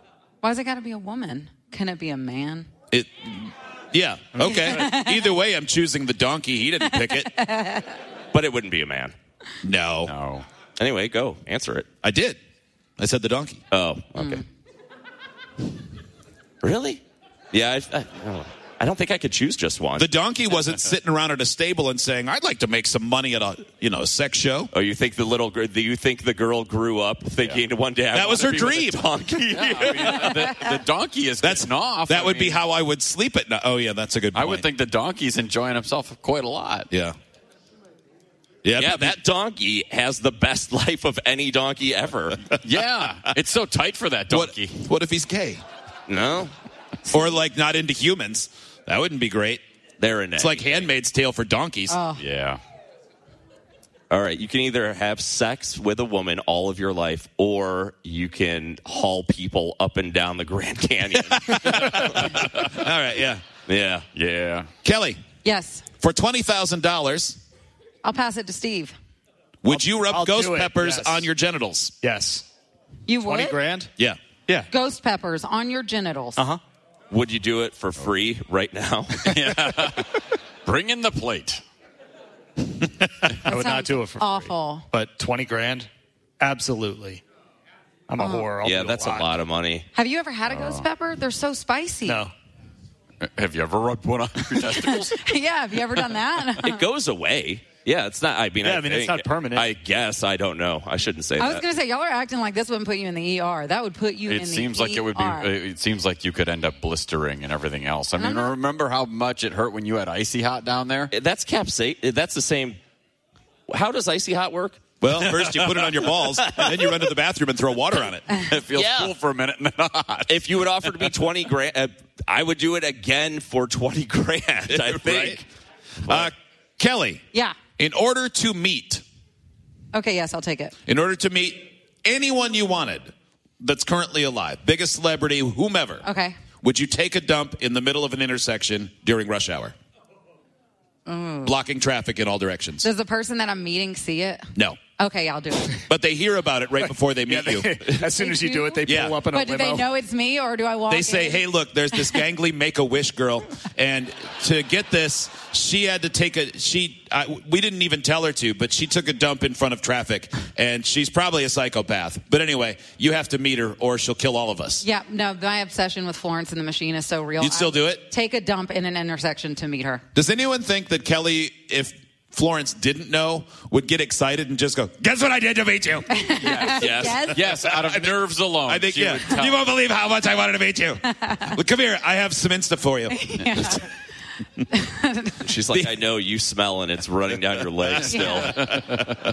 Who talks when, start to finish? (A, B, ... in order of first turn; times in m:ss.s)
0:00.4-0:02.7 A
0:02.9-0:07.4 B
0:04.4-0:05.2 A
0:07.2-0:07.9 A
0:08.3-0:09.1 C
0:09.6-0:10.1 B
0:10.0-0:10.4 D
0:10.8-0:11.9 C
0:12.0-0:12.4 B
0:13.0-0:13.6 B
0:13.7-0:14.4 C
0:16.6-0:20.0 C
0:20.0-0:24.7 B
0:24.7-0:30.5 C
0:28.1-0:29.0 B
0:29.5-0:32.6 D
0:31.4-0:34.6 B
0:34.3-0:36.9 D
0:36.9-0:37.1 B
0:38.6-0:39.2 B
0:38.8-0:42.5 C
0:42.6-0:44.9 D
0:44.3-0:45.6 B
0:46.1-0:46.5 C
0:47.0-0:49.6 B
0:50.0-0:50.9 C
0:50.4-0:52.0 B
0:51.9-0:52.2 A
0:52.2-0:52.6 D
0:54.1-1:02.4 C
1:01.2-1:03.4 B
1:03.7-1:04.0 C
1:04.1-1:04.7 D
1:04.8-1:05.2 B
1:05.4-1:05.8 A
1:06.0-1:07.4 B
1:08.0-1:08.9 A
1:09.6-1:11.9 B
1:09.7-1:11.2 E
1:12.0-1:12.4 E
1:13.0-1:13.6 A
1:13.2-1:13.9 E
1:14.7-1:16.4 A
1:17.1-1:19.3 C
1:19.2-1:21.6 D
1:23.2-1:25.9 E
1:23.4-1:24.8 A
1:26.4-1:27.2 E
1:28.1-1:29.3 E
1:28.2-1:28.5 A
1:28.6-1:29.9 C
1:29.9-1:32.2 A
1:30.5-1:30.8 D
1:32.0-1:32.3 E
1:33.2-1:35.2 D
1:34.6-1:36.8 A
1:36.6-1:41.6 C
1:38.6-1:39.7 E
1:41.4-1:45.6 A
1:44.2-1:51.1 D
1:48.2-1:48.5 A
1:51.1-1:52.8 C
1:53.7-1:54.8 C
1:55.0-1:58.3 B
1:55.5-1:57.0 C
1:58.3-2:00.4 D
1:58.7-1:59.1 C
2:00.3-2:05.4 C
2:04.7-2:05.4 B
2:06.1-2:07.2 B
2:07.8-2:09.0 B
2:09.9-2:10.7 A
2:10.9-2:16.0 B
2:16.0-2:16.4 A
2:16.6-2:19.7 B
2:21.0-2:21.5 A
2:21.4-2:22.8 B
2:22.8-2:24.5 A
2:25.0-2:25.8 A
2:25.9-2:27.8 B
2:27.2-2:29.8 E
2:28.1-2:32.0 A
2:28.8-2:29.2 B
2:30.9-2:44.8 B
2:44.8-2:50.0 A
2:47.4-2:48.1 B
2:50.1-2:56.3 B
2:56.1-2:57.5 A
2:56.4-2:59.6 D
2:56.8-2:57.2 C
2:57.6-2:58.1 B
2:58.6-3:03.8 B
3:01.1-3:01.5 A
3:03.1-3:03.8 A
3:04.7-3:05.4 A
3:05.4-3:08.6 C
3:08.0-3:08.6 A
3:08.0-3:09.0 B